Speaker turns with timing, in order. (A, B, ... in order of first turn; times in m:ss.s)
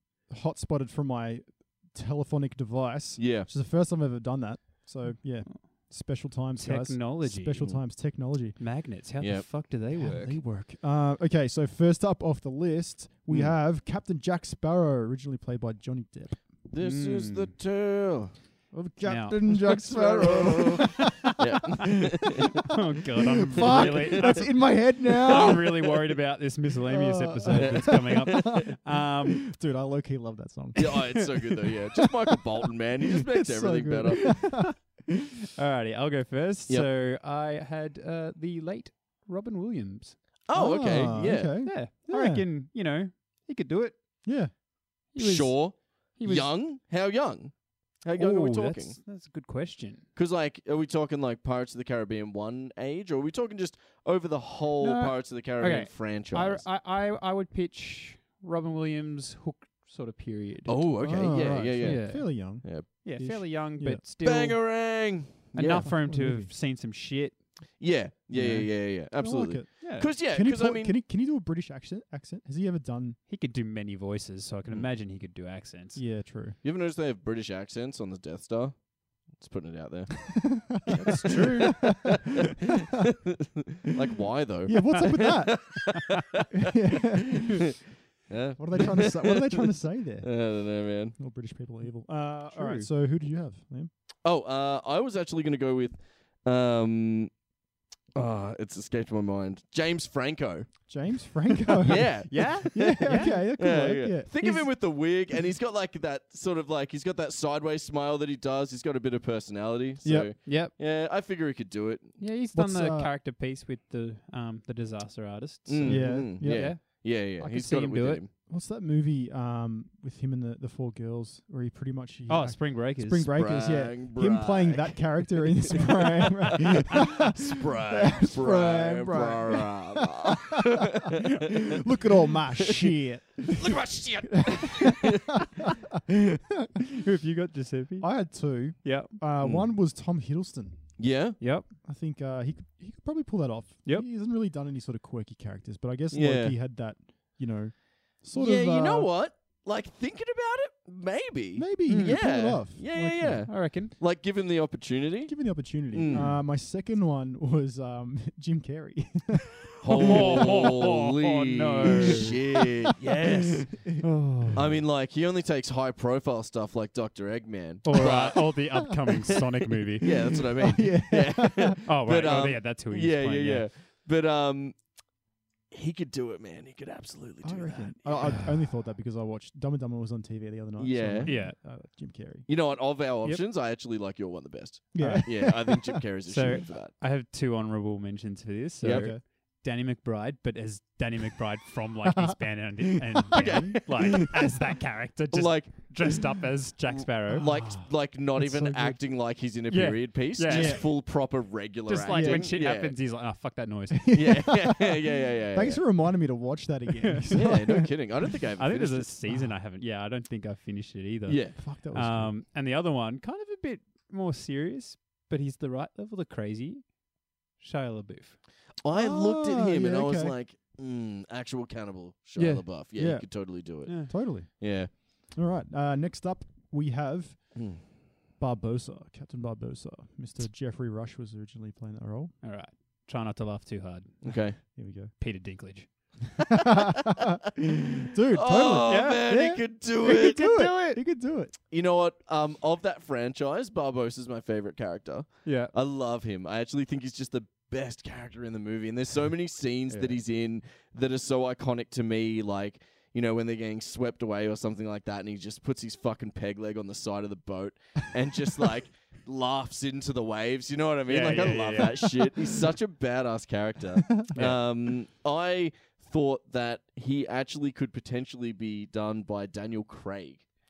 0:00.3-0:08.6 A
0:03.2-0:03.5 B
0:05.0-0:05.9 C
0:06.6-0:07.9 C
0:08.6-0:10.4 C
0:09.2-0:09.7 B
0:09.9-0:16.4 A
0:13.3-0:13.6 B
0:16.7-0:18.3 B
0:16.8-0:17.5 C
0:18.7-0:21.3 A
0:19.0-0:19.4 C
0:19.5-0:22.6 B
0:22.7-0:29.5 C
0:23.5-0:25.7 A
0:23.6-0:25.9 B
0:26.9-0:31.7 A
0:27.6-0:28.6 B
0:30.8-0:34.7 B
0:33.1-0:34.8 A
0:34.2-0:34.7 C
0:35.6-0:40.2 C
0:40.5-0:41.8 B
0:40.5-0:42.5 A
0:41.6-0:44.2 C
0:44.2-0:44.5 A
0:45.1-0:46.5 C
0:45.2-0:49.0 B
0:48.2-0:50.0 C
0:50.2-0:56.6 B
0:54.8-1:00.8 C
1:00.7-1:02.9 B
1:01.0-1:04.0 A
1:01.8-1:04.9 C
1:04.2-1:05.9 B
1:05.5-1:07.5 C
1:05.7-1:06.5 A
1:07.8-1:10.9 B
1:08.4-1:08.7 C
1:08.4-1:13.2 A
1:09.8-1:10.1 C
1:13.3-1:16.0 C
1:16.0-1:16.6 A
1:16.6-1:26.5 B
1:20.3-1:22.1 A
1:21.1-1:21.8 C
1:24.6-1:25.9 A
1:26.5-1:27.6 A
1:27.4-1:27.6 B
1:28.3-1:29.6 B
1:28.6-1:33.9 A
1:30.2-1:31.2 B
1:32.5-1:32.9 C
1:34.2-1:37.3 B
1:38.2-1:40.7 B
1:40.9-1:44.3 A
1:41.8-1:52.2 B
1:42.2-1:43.4 C
1:44.4-1:44.7 C
1:50.0-1:50.3 A
1:50.4-1:50.7 C
1:52.2-1:58.2 C
1:52.5-1:53.1 A
1:55.7-1:58.3 B
1:55.8-1:56.8 A
1:58.5-2:10.5 A
2:02.3-2:03.4 C
2:03.3-2:11.8 B
2:11.1-2:15.7 A
2:12.6-2:12.9 B
2:13.5-2:15.5 B
2:16.9-2:18.3 C
2:18.0-2:21.0 A
2:18.8-2:19.2 C
2:19.4-2:19.7 B
2:21.0-2:21.4 B
2:21.4-2:21.7 C
2:21.8-2:29.1 A
2:26.1-2:26.6 B
2:28.3-2:36.4 B
2:31.6-2:33.6 A
2:31.9-2:32.2 C
2:33.5-2:33.9 C
2:35.2-2:40.8 A
2:39.8-2:43.9 B
2:39.9-2:42.4 C
2:41.9-2:42.3 A
2:43.2-2:44.8 A
2:44.0-2:44.7 C
2:44.5-2:48.9 B
2:47.8-2:50.4 C
2:50.0-2:55.0 B
2:50.1-2:51.8 A
2:51.8-2:53.7 C
2:55.7-2:58.5 B
2:57.4-3:02.5 A
3:00.8-3:01.4 B
3:01.2-3:01.6 C
3:02.5-3:06.9 B
3:04.9-3:06.0 A
3:05.0-3:05.3 C
3:06.2-3:17.5 C
3:08.8-3:09.1 B
3:08.8-3:09.2 A
3:13.2-3:13.7 A
3:13.3-3:14.2 B
3:15.3-3:16.3 B
3:17.0-3:23.0 B
3:17.3-3:19.0 A
3:19.7-3:21.2 C
3:20.5-3:20.9 A
3:21.9-3:24.2 C
3:22.1-3:22.6 A
3:24.0-3:25.0 A
3:24.1-3:25.8 B
3:25.5-3:27.9 A
3:27.0-3:27.5 C
3:27.3-3:29.1 B
3:28.6-3:38.4 C
3:29.3-3:29.5 A
3:31.3-3:31.6 B
3:31.6-3:32.4 A
3:38.8-3:44.9 B
3:38.9-3:40.4 A
3:42.4-3:42.7 C
3:42.9-3:52.4 A
3:43.8-3:44.1 C
3:47.6-3:47.8 B
3:52.4-3:56.1 C
3:54.2-3:54.6 B
3:54.8-3:55.1 A
3:56.5-3:57.4 A
3:57.6-4:00.6 B
3:58.1-4:01.5 A
3:58.9-3:59.3 C
4:00.2-4:01.0 C
4:01.7-4:30.5 B
4:05.4-4:05.7 C
4:09.9-4:10.2 C
4:21.1-4:22.6 C
4:24.3-4:24.6 C